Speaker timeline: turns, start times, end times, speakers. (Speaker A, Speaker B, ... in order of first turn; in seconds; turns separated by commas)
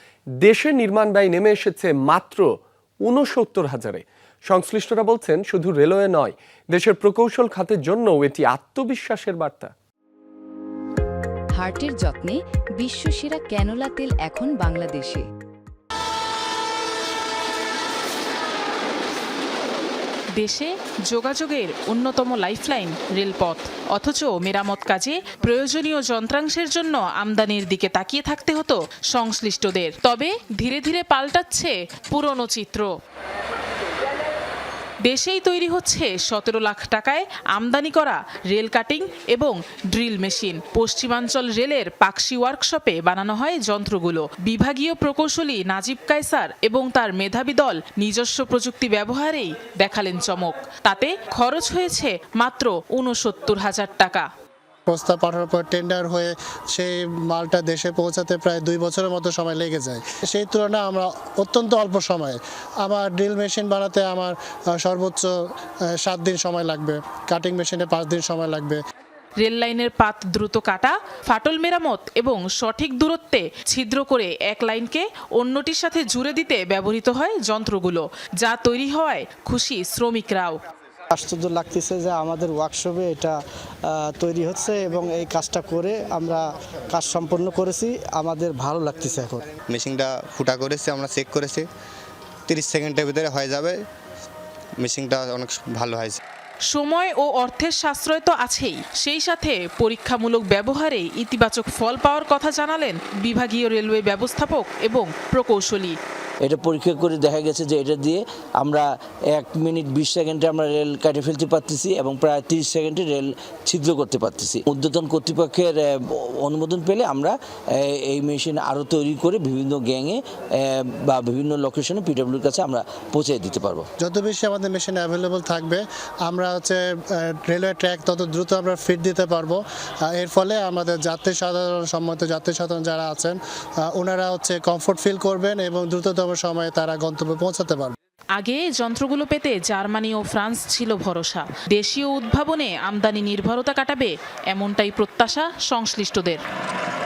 Speaker A: 0.4-2.5, Speaker A: 3.0-9.7, Speaker B: 11.6-15.2, Speaker C: 20.4-32.9, Speaker C: 35.0-54.3, Speaker D: 54.9-65.3, Speaker D: 66.0-68.8, Speaker C: 69.4-80.6, Speaker E: 81.1-89.5, Speaker F: 89.7-91.7, Speaker F: 92.5-93.8, Speaker F: 94.8-96.2, Speaker C: 96.7-106.0, Speaker G: 106.4-123.8, Speaker D: 124.0-129.6, Speaker D: 130.1-133.4, Speaker D: 133.9-137.9, Speaker C: 138.4-146.4